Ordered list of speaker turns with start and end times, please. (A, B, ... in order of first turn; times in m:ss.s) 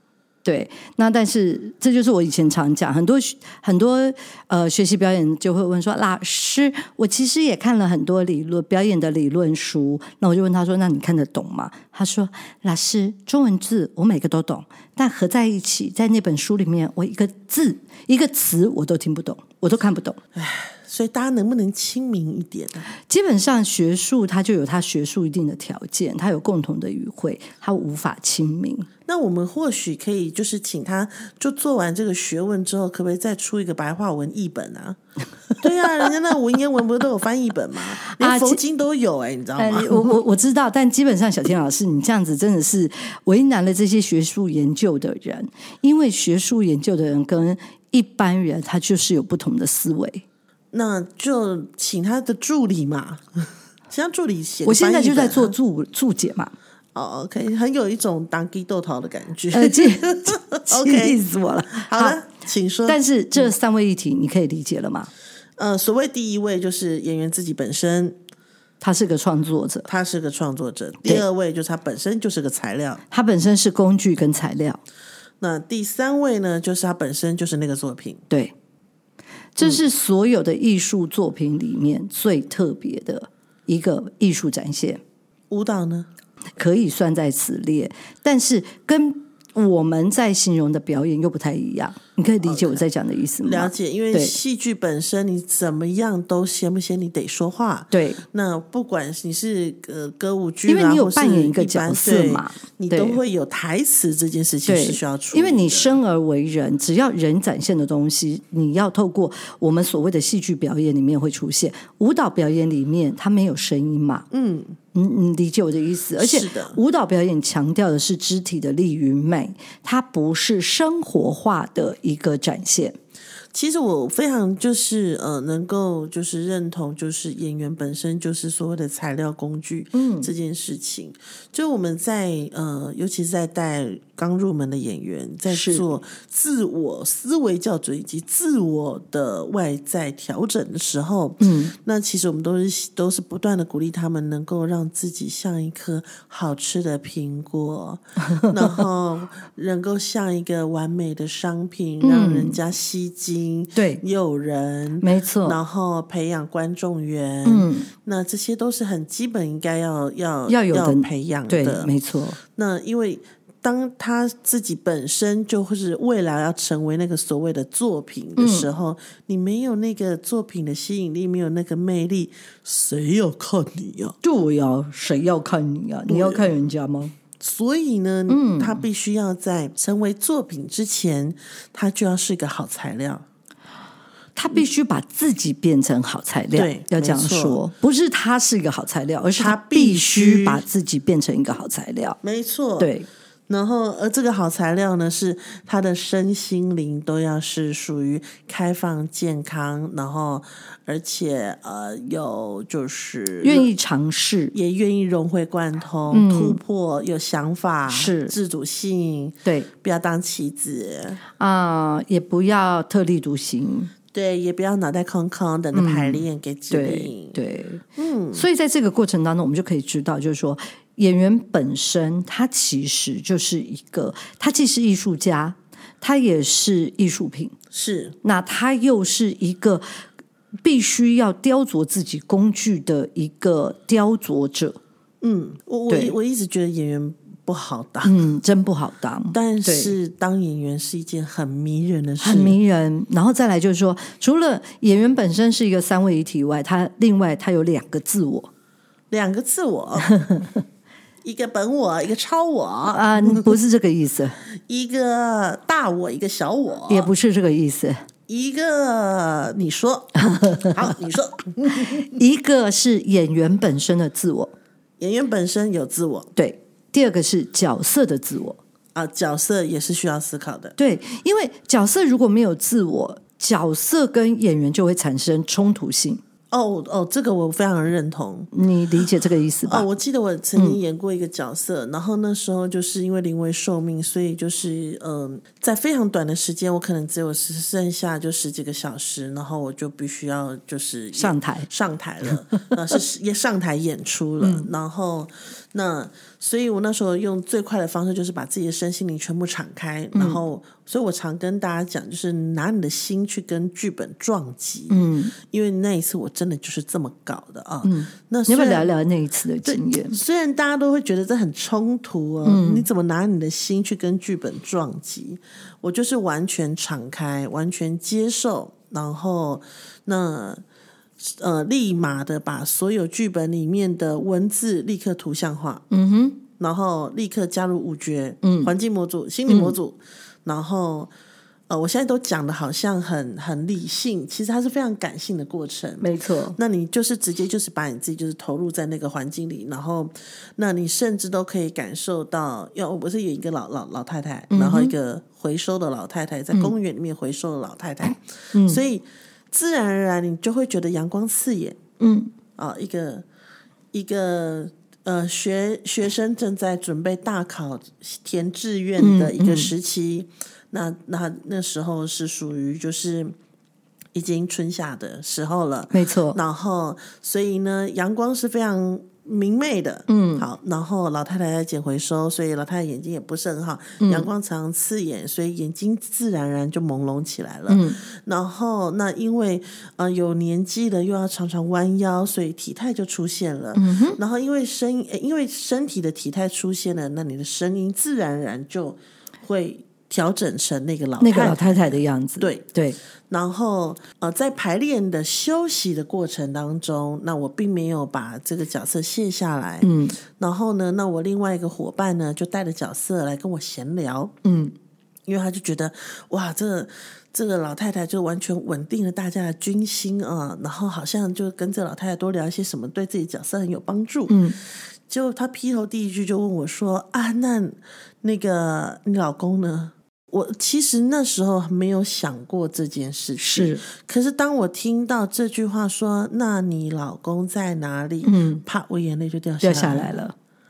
0:00.4-0:20.2 A
0:20.3-0:22.9 B
0:23.1-0:28.9 A
0:29.0-0:35.0 B
0:35.6-0:40.2 B
0:38.0-0:38.6 A
0:39.6-0:50.2 A
0:50.7-0:55.5 B
0:54.6-0:56.5 A
0:56.9-1:01.2 B
0:59.5-1:02.2 A
1:01.7-1:03.0 B
1:02.9-1:05.1 A
1:05.6-1:08.2 B
1:08.8-1:09.9 A
1:09.9-1:13.0 B
1:13.1-1:14.8 A
1:15.4-1:18.2 B
1:19.6-1:25.0 A
1:25.5-1:26.1 B
1:26.6-1:34.4 A
1:32.4-1:32.8 B
1:33.4-1:46.0 B
1:37.9-1:38.2 A
1:40.7-1:43.2 A
1:44.6-1:54.2 A
1:54.3-1:54.8 B
1:54.9-2:03.0 A
1:56.2-1:56.8 B
2:03.5-2:41.9 B
2:09.9-2:10.3 A
2:15.5-2:15.8 A
2:21.4-2:21.7 A
2:32.0-2:32.6 A
2:33.8-2:34.0 A
2:35.0-2:35.6 A
2:37.4-2:37.9 A
2:40.5-2:42.4 A
2:42.5-2:54.2 B
2:48.4-2:48.7 A
2:54.2-2:57.1 A
2:56.1-2:56.5 B
2:57.4-3:03.2 B
2:58.3-2:58.8 A
3:04.4-3:12.2 A
3:06.5-3:07.6 B
3:09.4-3:10.6 B
3:12.2-3:12.9 B
3:12.8-3:13.1 A
3:13.5-3:23.7 B
3:23.4-3:24.5 A
3:24.5-3:31.2 B
3:26.1-3:26.6 A
3:27.9-3:28.3 A
3:31.4-3:33.9 A
3:34.1-3:37.4 B
3:35.7-3:47.6 A
3:38.0-3:38.4 B
3:47.7-3:48.2 B
3:48.2-3:49.8 A
3:50.6-3:54.8 A
3:55.2-3:58.2 B
3:55.9-3:56.1 A
3:58.0-3:59.9 A
3:59.3-4:02.6 B
4:02.2-4:08.5 A
4:09.1-4:10.1 B
4:10.0-4:10.6 A
4:11.2-4:13.6 B
4:12.9-4:14.4 A
4:14.6-4:17.1 B
4:16.9-4:18.0 A
4:18.3-4:22.1 B
4:20.2-4:20.9 A
4:21.7-4:24.5 A
4:25.0-4:26.3 B
4:26.4-4:28.6 A
4:28.9-4:30.8 B
4:30.8-4:36.2 A
4:36.5-4:38.5 B
4:38.5-4:39.9 A
4:39.6-5:08.9 B
4:51.1-4:51.7 A
4:54.4-4:54.7 A
5:00.1-5:00.4 A
5:04.9-5:05.3 A
5:07.8-5:10.2 A
5:09.6-5:20.6 B
5:12.4-5:12.8 A
5:21.2-5:25.8 B
5:25.9-5:26.4 A
5:26.6-5:31.1 B
5:28.4-5:28.7 A
5:29.5-5:29.8 A
5:31.7-5:51.8 B
5:36.0-5:36.6 A
5:44.5-5:44.9 A
5:48.5-5:48.8 A
5:52.0-5:52.3 A
5:52.6-5:53.2 B
5:53.9-6:03.3 B
5:59.0-5:59.7 A
6:04.1-6:32.7 B
6:05.9-6:06.4 A
6:10.1-6:10.4 A
6:14.0-6:14.3 A
6:17.7-6:18.0 A
6:23.8-6:24.2 A
6:31.2-6:33.0 A
6:33.3-6:44.4 B
6:39.8-6:40.2 A
6:44.4-6:44.7 A
6:45.2-6:54.4 B
6:54.3-6:54.6 A
6:55.1-7:10.2 B
7:03.4-7:03.8 A
7:08.2-7:08.6 A
7:09.6-7:10.3 A